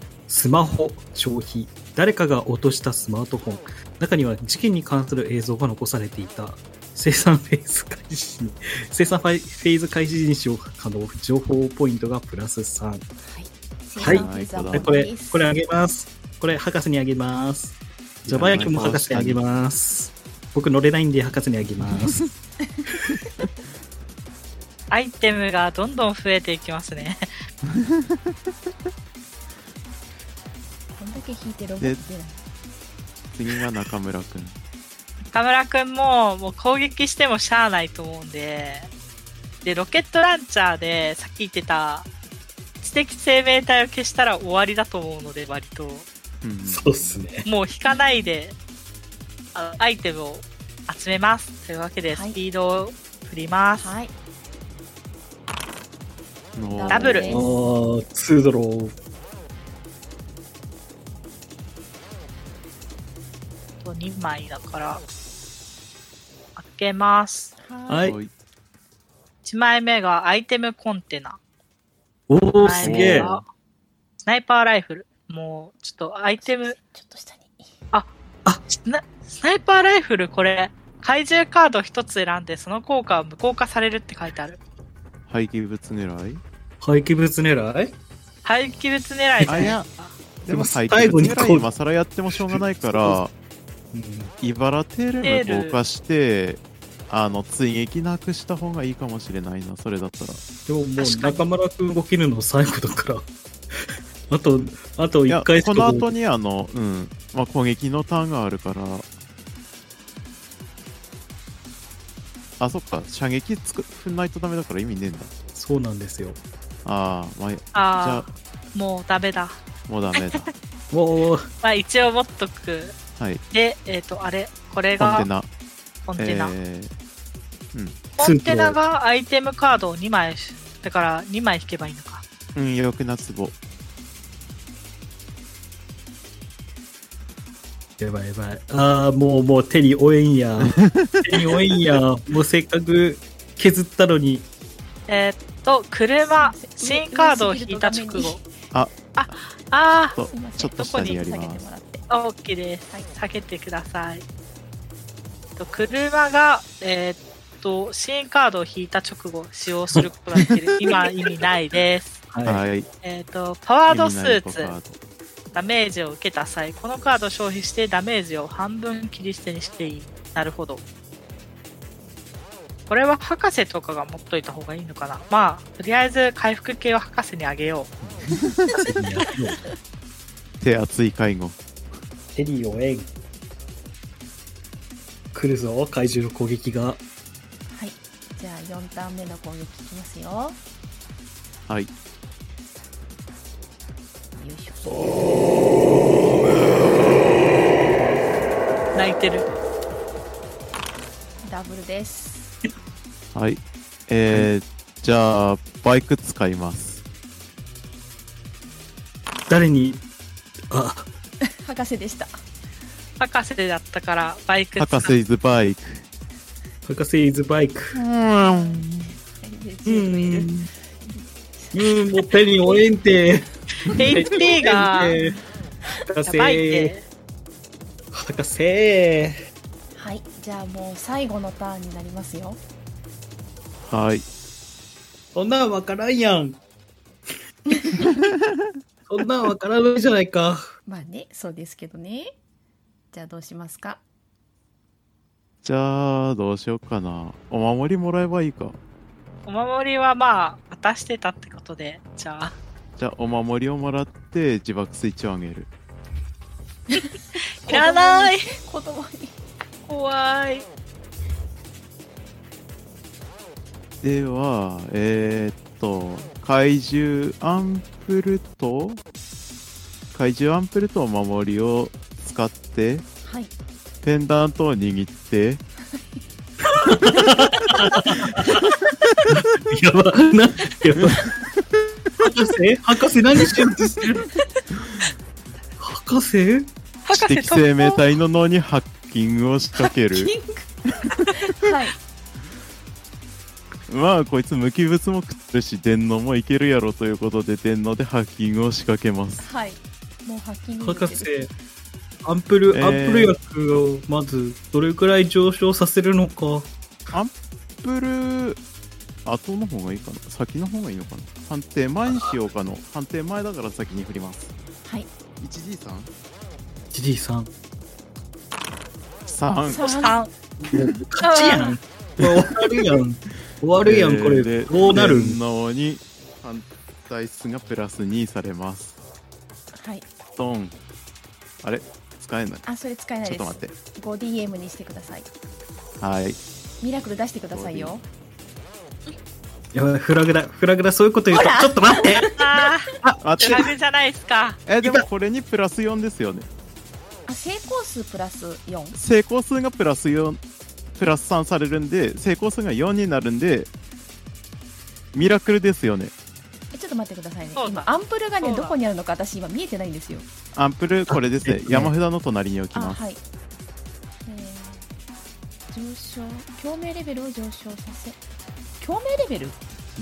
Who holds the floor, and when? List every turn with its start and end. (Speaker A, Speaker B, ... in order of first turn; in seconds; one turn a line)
Speaker A: 0.3-13.1
Speaker B: 13.3-15.4
Speaker A: 14.0-22.3
Speaker C: 14.0-15.1
Speaker C: 18.2-19.4
Speaker D: 24.9-27.3
Speaker C: 27.8-28.3
Speaker B: 30.9-32.4
Speaker C: 33.4-34.6
Speaker D: 35.3-38.9
Speaker D: 39.6-42.1
Speaker D: 42.8-46.1
Speaker C: 46.4-47.2
Speaker A: 46.7-47.5
Speaker D: 47.5-48.6
Speaker D: 49.5-54.0
Speaker B: 52.1-52.4
Speaker B: 53.8-54.1
Speaker C: 56.5-57.3
Speaker B: 56.7-57.7
Speaker D: 56.9-57.3
Speaker A: 57.3-58.9
Speaker D: 63.8-65.0
Speaker D: 66.6-67.5
Speaker B: 67.6-68.2
Speaker A: 67.9-68.2
Speaker C: 68.0-68.3
Speaker D: 69.5-71.4
Speaker A: 72.3-73.3
Speaker D: 72.6-73.5
Speaker C: 72.8-73.4
Speaker D: 74.2-76.8
Speaker B: 76.4-77.7
Speaker D: 78.7-84.6
Speaker C: 85.3-86.4
Speaker A: 86.8-88.0
Speaker D: 88.5-90.1
Speaker A: 89.4-89.8
Speaker C: 89.5-89.9
Speaker C: 90.4-93.3
Speaker A: 90.5-91.7
Speaker A: 92.3-93.2
Speaker A: 93.9-94.3
Speaker C: 94.4-100.4
Speaker D: 95.2-95.8
Speaker A: 100.7-106.1
Speaker D: 101.0-101.5
Speaker C: 105.3-109.1
Speaker C: 112.6-115.3
Speaker A: 115.5-116.4
Speaker C: 116.8-118.3
Speaker D: 117.7-119.6
Speaker C: 119.9-120.5
Speaker D: 120.1-120.5
Speaker A: 120.9-121.5
Speaker D: 121.6-123.0
Speaker C: 123.2-123.4
Speaker D: 123.5-125.3
Speaker C: 125.0-125.5
Speaker D: 126.1-126.5
Speaker C: 126.2-126.9
Speaker C: 127.7-128.0
Speaker D: 128.2-132.2
Speaker A: 128.2-128.8
Speaker C: 132.6-133.6
Speaker A: 138.0-144.5
Speaker C: 140.8-141.5
Speaker D: 145.1-148.4
Speaker B: 146.3-148.5
Speaker C: 148.7-149.3
Speaker D: 149.2-150.2
Speaker C: 150.1-151.7
Speaker B: 150.2-152.1
Speaker D: 150.8-151.2
Speaker D: 152.1-154.2
Speaker D: 155.6-162.2
Speaker A: 160.0-161.1
Speaker A: 162.3-162.6
Speaker C: 162.4-162.9
Speaker D: 163.0-164.7
Speaker C: 163.9-165.0
Speaker D: 165.5-170.8
Speaker D: 172.9-177.9
Speaker C: 178.1-178.8
Speaker A: 178.8-179.6
Speaker C: 180.6-181.6
Speaker A: 182.3-183.1
Speaker A: 185.3-187.0
Speaker B: 187.7-190.6
Speaker B: 194.3-195.4
Speaker D: 198.9-199.5
Speaker B: 201.4-202.6
Speaker C: 203.3-207.0
Speaker A: 209.5-210.0
Speaker A: 210.7-211.1
Speaker B: 211.5-212.4
Speaker D: 213.2-215.2
Speaker C: 214.8-216.1
Speaker A: 216.9-218.0
Speaker C: 217.9-219.1
Speaker B: 218.4-220.6
Speaker A: 219.9-220.7
Speaker B: 221.1-222.2
Speaker A: 221.7-225.4
Speaker D: 223.9-225.2
Speaker A: 226.1-226.9
Speaker D: 226.3-227.0
Speaker A: 228.1-229.4
Speaker B: 230.0-232.6
Speaker C: 233.9-234.2
Speaker A: 235.3-236.6
Speaker A: 239.1-240.7
Speaker B: 240.9-242.3
Speaker B: 243.1-244.0
Speaker C: 245.6-248.8
Speaker D: 249.5-252.6
Speaker C: 253.0-255.7
Speaker D: 257.6-258.5
Speaker B: 257.7-259.4
Speaker D: 259.9-260.7
Speaker C: 264.0-269.0
Speaker C: 270.1-273.1
Speaker B: 273.2-273.5
Speaker C: 274.0-275.6
Speaker B: 275.9-276.2
Speaker A: 276.7-278.8
Speaker A: 279.3-281.3
Speaker C: 281.0-282.2
Speaker A: 282.2-284.3
Speaker A: 285.8-286.7
Speaker D: 287.1-288.0
Speaker C: 287.1-290.3
Speaker B: 290.1-292.0
Speaker C: 293.9-299.5
Speaker B: 299.4-301.3
Speaker A: 300.8-301.5
Speaker A: 302.2-306.7
Speaker C: 302.7-303.4
Speaker C: 307.1-308.6
Speaker C: 309.2-314.5
Speaker A: 312.1-312.4
Speaker B: 314.8-315.1
Speaker C: 315.4-316.1
Speaker A: 316.9-317.5
Speaker C: 319.3-320.1
Speaker B: 319.6-320.2
Speaker D: 319.8-320.3
Speaker A: 320.6-325.4
Speaker D: 321.2-321.8
Speaker C: 322.2-322.5
Speaker C: 323.8-329.0
Speaker B: 329.7-330.1
Speaker C: 330.4-330.8
Speaker C: 331.6-332.6
Speaker B: 332.6-335.3
Speaker C: 333.2-333.7
Speaker C: 336.0-336.4
Speaker B: 336.8-338.0
Speaker C: 337.5-337.9
Speaker A: 339.7-342.3
Speaker B: 341.3-342.4
Speaker D: 342.3-344.6
Speaker A: 343.0-343.6
Speaker C: 343.2-343.7
Speaker C: 344.7-346.5
Speaker B: 347.3-349.0
Speaker C: 348.9-350.4
Speaker C: 350.9-353.7
Speaker C: 355.1-356.1
Speaker B: 356.7-360.3
Speaker D: 357.6-358.8
Speaker C: 360.5-363.0
Speaker A: 361.1-361.9
Speaker B: 362.7-363.2
Speaker B: 364.3-364.9
Speaker B: 365.7-368.2
Speaker B: 368.8-369.6